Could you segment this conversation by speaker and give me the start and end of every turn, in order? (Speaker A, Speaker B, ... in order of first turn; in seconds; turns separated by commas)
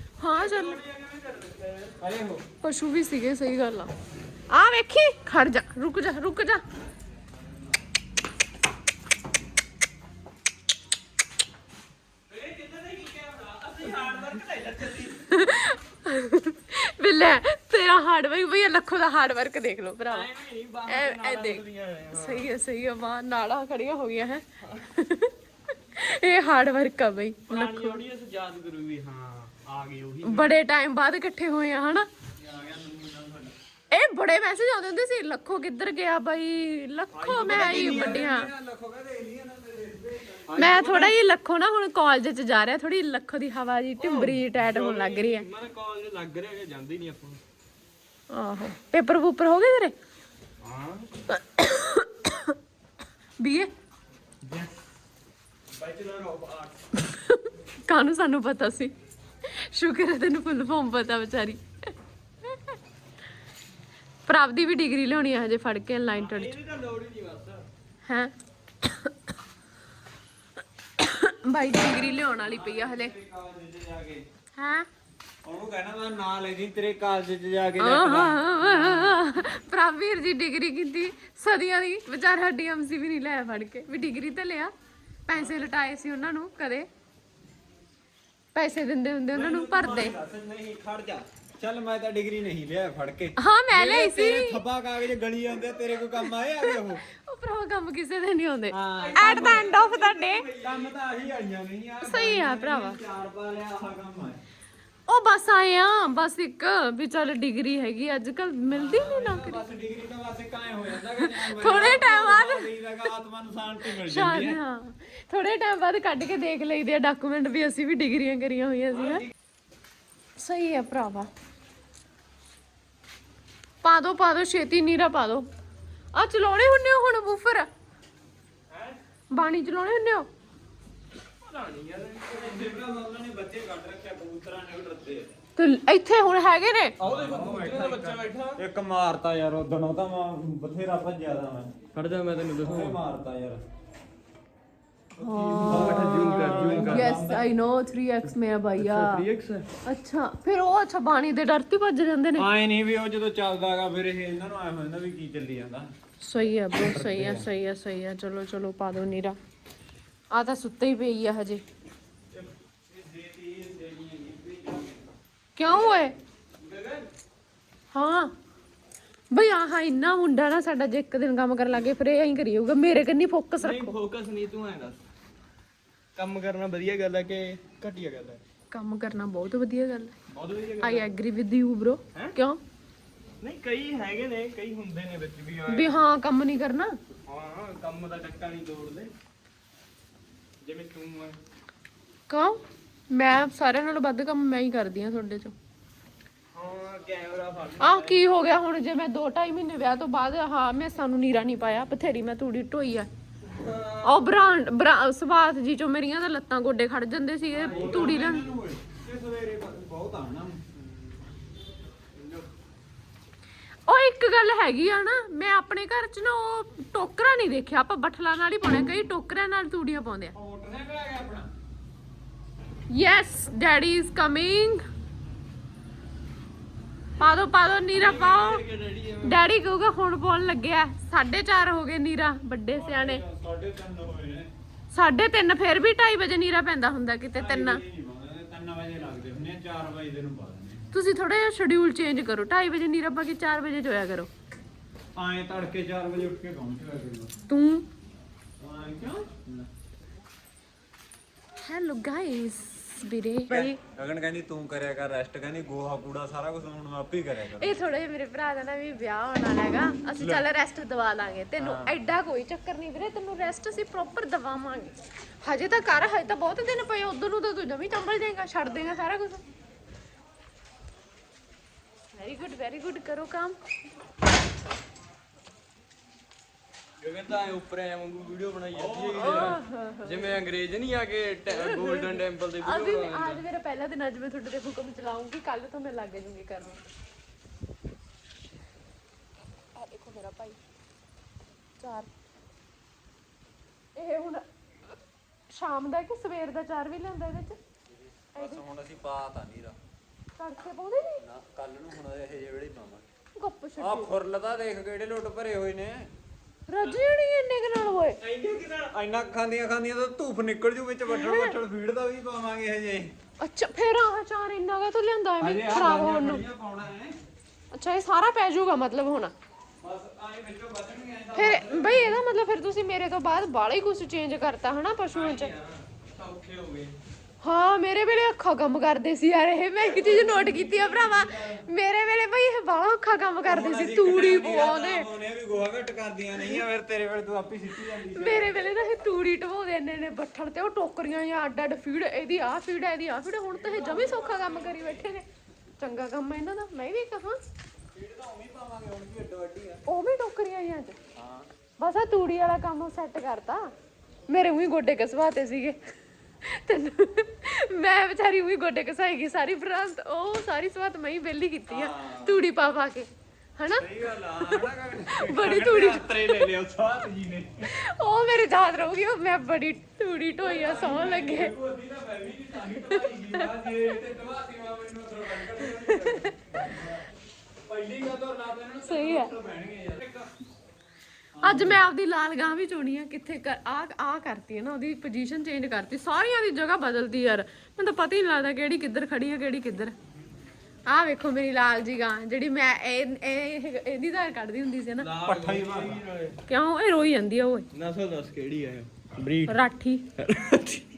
Speaker A: 0.2-0.8, Speaker B: 0.3-2.0, Speaker C: 2.0-2.4, Speaker A: 2.6-3.9, Speaker A: 4.5-6.6, Speaker B: 12.3-15.4, Speaker A: 15.3-20.3, Speaker B: 20.1-22.5, Speaker A: 20.9-25.3, Speaker A: 25.9-28.0, Speaker B: 27.5-30.5, Speaker A: 30.2-32.1, Speaker C: 32.4-33.5, Speaker A: 33.9-38.5, Speaker B: 37.1-38.3, Speaker C: 37.4-41.1, Speaker B: 40.5-41.1, Speaker A: 40.5-45.5, Speaker B: 44.0-47.4, Speaker A: 48.3-49.9, Speaker B: 50.6-51.1, Speaker A: 51.3-52.5, Speaker A: 53.4-53.7, Speaker B: 55.7-56.8, Speaker A: 57.0-58.9, Speaker A: 59.4-61.9, Speaker A: 62.4-62.7, Speaker A: 64.2-66.5, Speaker B: 66.1-67.6, Speaker A: 68.0-68.3, Speaker A: 68.8-69.1, Speaker A: 71.0-73.1, Speaker C: 71.8-74.2, Speaker A: 74.6-74.9, Speaker C: 75.4-79.2, Speaker A: 77.8-84.7, Speaker A: 85.3-86.9, Speaker A: 88.5-90.2, Speaker C: 89.3-97.0, Speaker A: 93.4-94.6, Speaker A: 96.0-100.4, Speaker C: 98.7-99.7, Speaker B: 99.0-100.9, Speaker C: 100.6-104.4, Speaker A: 102.0-103.0, Speaker A: 105.1-109.6, Speaker C: 108.7-114.6, Speaker A: 111.2-112.7, Speaker A: 113.8-119.3, Speaker B: 119.0-119.2, Speaker A: 120.4-121.3, Speaker A: 123.8-125.5, Speaker A: 126.1-127.7, Speaker B: 128.7-129.0, Speaker A: 129.3-130.3, Speaker B: 131.4-132.4, Speaker C: 132.2-135.4, Speaker A: 135.6-136.9, Speaker B: 137.0-138.6, Speaker C: 137.0-141.8, Speaker B: 141.9-143.0, Speaker C: 142.6-143.6, Speaker A: 145.2-149.3, Speaker B: 145.2-147.1, Speaker C: 145.6-147.5, Speaker B: 148.8-149.7, Speaker A: 149.8-152.5, Speaker C: 152.4-155.9, Speaker A: 156.2-159.4, Speaker C: 156.7-157.4, Speaker A: 160.3-161.6, Speaker B: 162.9-164.9, Speaker A: 165.6-166.1, Speaker B: 165.6-167.1, Speaker A: 167.9-168.3, Speaker A: 169.3-173.9, Speaker B: 173.6-175.0, Speaker B: 176.2-178.4, Speaker A: 178.7-180.1, Speaker B: 180.3-181.1, Speaker A: 180.8-182.6, Speaker B: 183.4-185.9, Speaker A: 185.7-187.0, Speaker B: 187.3-189.1, Speaker B: 190.6-191.4, Speaker A: 192.3-195.5, Speaker B: 196.5-198.2, Speaker A: 197.8-203.1, Speaker B: 203.4-204.3, Speaker A: 204.0-208.5, Speaker C: 207.5-210.6, Speaker B: 207.6-208.2, Speaker B: 210.7-211.3, Speaker B: 212.1-212.5, Speaker A: 213.9-220.3, Speaker C: 220.3-221.5, Speaker A: 222.9-224.8, Speaker A: 227.2-228.6, Speaker B: 227.9-229.4, Speaker A: 229.2-233.2, Speaker C: 232.7-234.5, Speaker A: 234.9-237.8, Speaker C: 237.3-240.8, Speaker A: 240.9-244.3, Speaker C: 245.2-247.3, Speaker A: 247.5-247.8, Speaker C: 248.6-249.7, Speaker A: 251.6-253.8, Speaker C: 253.5-257.8, Speaker A: 257.6-269.4, Speaker C: 260.2-260.4, Speaker C: 261.6-262.0, Speaker A: 272.1-273.6, Speaker B: 277.0-283.4, Speaker C: 278.7-279.6, Speaker A: 279.1-280.3, Speaker A: 281.5-286.8, Speaker A: 289.7-290.6, Speaker A: 291.8-292.1, Speaker A: 293.9-294.4, Speaker A: 295.5-297.6, Speaker C: 297.9-299.8, Speaker A: 298.4-298.6, Speaker A: 300.4-301.2, Speaker C: 301.2-303.1, Speaker A: 303.4-304.1, Speaker C: 303.8-306.1, Speaker A: 306.7-308.2, Speaker B: 308.2-308.9, Speaker C: 308.9-313.1, Speaker A: 311.1-311.5, Speaker A: 313.4-316.4, Speaker C: 315.4-317.1, Speaker A: 317.7-319.3, Speaker C: 319.8-322.2, Speaker A: 321.3-325.5, Speaker B: 325.1-326.9, Speaker A: 327.4-335.1, Speaker C: 329.8-331.6, Speaker C: 333.4-338.6, Speaker A: 338.1-345.2, Speaker C: 343.5-345.1, Speaker A: 345.8-347.4, Speaker C: 347.9-349.8, Speaker A: 349.9-351.0, Speaker C: 351.1-351.5, Speaker A: 351.8-353.7, Speaker A: 354.3-355.8, Speaker A: 356.4-366.5, Speaker C: 361.7-362.4, Speaker C: 363.7-367.7, Speaker A: 367.6-371.5, Speaker C: 370.4-377.0, Speaker A: 372.7-373.8, Speaker A: 375.6-376.3, Speaker C: 377.7-380.3, Speaker A: 378.8-379.3, Speaker C: 381.4-381.8, Speaker A: 381.4-389.9, Speaker A: 390.9-395.1, Speaker B: 395.0-396.4, Speaker C: 395.2-396.0, Speaker A: 396.5-397.7, Speaker B: 397.7-399.6, Speaker A: 399.5-400.0, Speaker B: 400.2-400.9